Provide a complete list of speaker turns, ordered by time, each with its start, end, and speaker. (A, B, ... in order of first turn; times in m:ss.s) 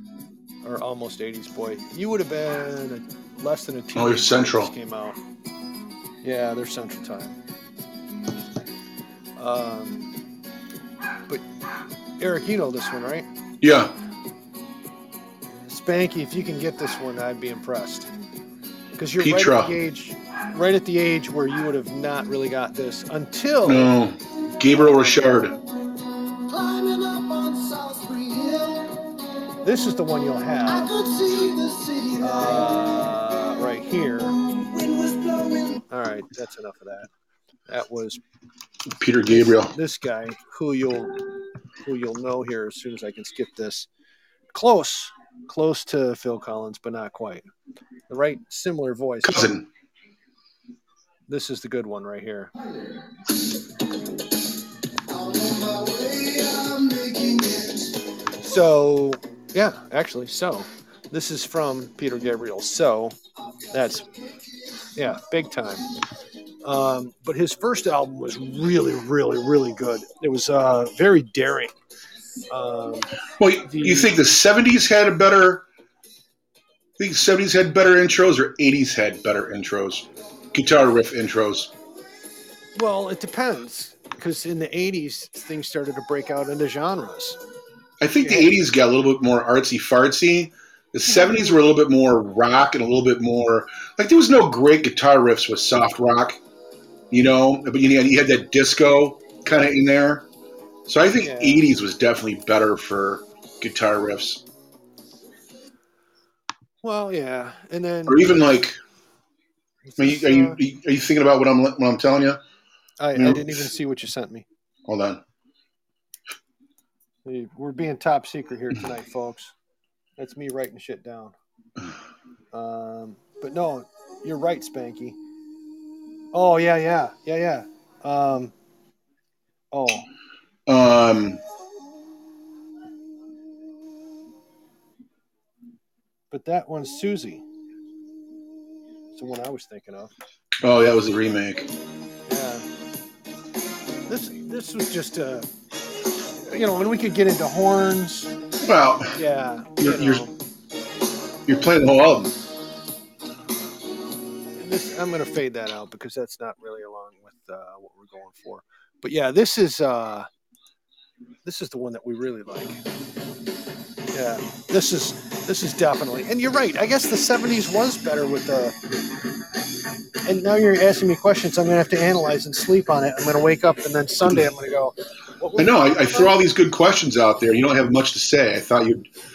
0:00.6-0:05.2 A
0:04.0-0:04.7 B
0:06.2-0:07.4 A
0:09.4-0:10.1 A
0:12.2-0:13.3 A
0:13.6-0:13.9 B
0:15.6-0:18.1 A
0:19.0-0:23.9 A
0:19.2-0:19.8 B
0:23.7-0:25.6 B
0:24.7-0:25.2 A
0:26.5-0:29.1 C
0:29.6-0:30.9 A
0:30.7-0:32.7 C
0:32.2-0:34.4 A
0:34.5-0:35.8 C
0:35.9-0:37.1 A
0:37.7-0:38.2 A
0:38.9-0:39.8 B
0:39.3-0:41.3 A
0:41.8-0:43.9 A
0:44.5-0:47.5 A
0:48.1-0:49.5 A
0:49.2-0:49.7 B
0:51.3-0:52.5 A
0:55.1-0:58.0 C
0:58.4-1:03.2 A
1:03.7-1:04.1 A
1:05.0-1:05.9 A
1:06.6-1:11.7 A
1:12.5-1:13.1 A
1:13.4-1:15.7 B
1:13.6-1:14.2 A
1:17.0-1:21.7 B
1:22.8-1:27.4 A
1:28.0-1:36.4 B
1:28.2-1:28.5 A
1:31.1-1:31.6 A
1:37.1-1:40.3 B
1:40.9-1:44.4 B
1:41.2-1:41.7 A
1:46.8-1:48.4 A
1:48.1-1:48.8 B
1:49.9-1:50.6 A
1:50.0-1:52.4 B
1:53.0-1:54.5 A
1:53.2-1:53.7 B
1:54.9-1:55.2 B
1:57.2-1:59.5 A
2:00.2-2:01.4 A
2:02.5-2:05.2 A
2:06.3-2:08.5 A
2:09.7-2:10.1 A
2:10.7-2:11.4 B
2:16.3-2:17.4 A
2:19.2-2:20.1 A
2:20.6-2:21.7 B
2:22.3-2:22.6 A
2:24.1-2:25.5 A
2:26.4-2:28.3 A
2:28.6-2:29.2 B
2:29.2-2:30.3 A
2:29.8-2:30.3 B
2:31.5-2:32.3 B
2:34.6-2:40.3 A
2:41.4-2:42.8 A
2:44.1-2:48.8 A
2:50.2-2:56.4 A
2:55.6-2:59.1 B